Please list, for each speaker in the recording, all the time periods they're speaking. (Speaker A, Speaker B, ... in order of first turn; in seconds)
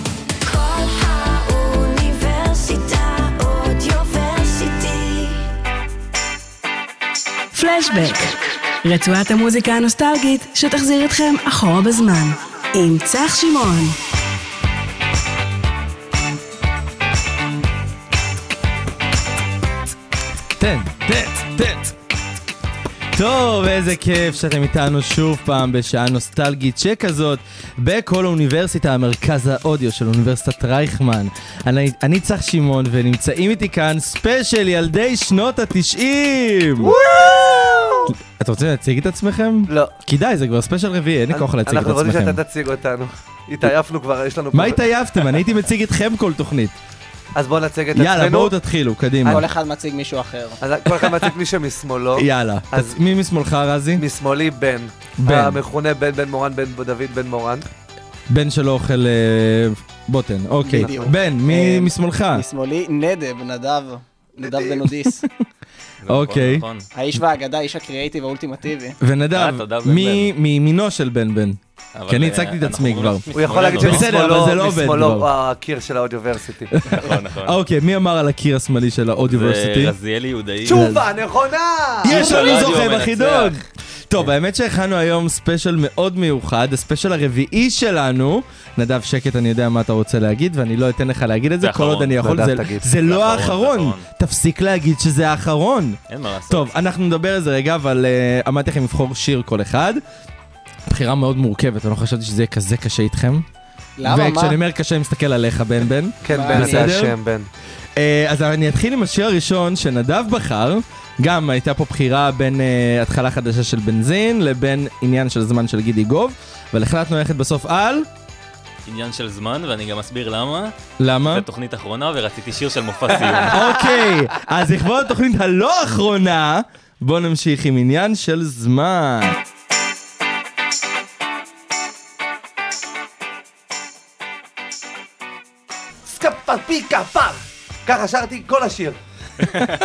Speaker A: 0.4-5.5
Speaker B: 7.5-14.0
Speaker C: 20.5-21.9, 23.1-37.0, 38.1-42.4, 44.5-46.8, 47.9-49.4, 50.9-51.3, 52.2-54.0, 55.2-55.6, 58.3-62.5, 65.2-65.5, 66.1-66.7, 69.0-75.3, 76.7-80.0, 80.7-81.1, 82.0-100.0, 100.9-103.5, 104.0-107.2, 108.0-118.1, 121.0-121.5, 123.3-129.4
Speaker D: 36.8-38.1, 39.7-39.9, 41.3-44.8, 47.4-48.5, 50.6-53.0, 54.0-57.7, 60.8-61.0, 64.4-64.8, 73.3-76.8, 80.7-82.7, 92.2-92.9, 106.2-107.5, 136.1-139.0
Speaker E: 49.2-50.6, 60.6-65.2, 66.9-69.0, 104.0-104.6, 106.3-107.0
Speaker F: 66.0-66.9, 69.3-70.3, 72.0-74.1, 76.9-77.6, 79.2-80.9, 82.0-84.3, 91.6-92.4, 92.9-94.1, 96.1-96.8, 118.9-120.7, 121.3-123.8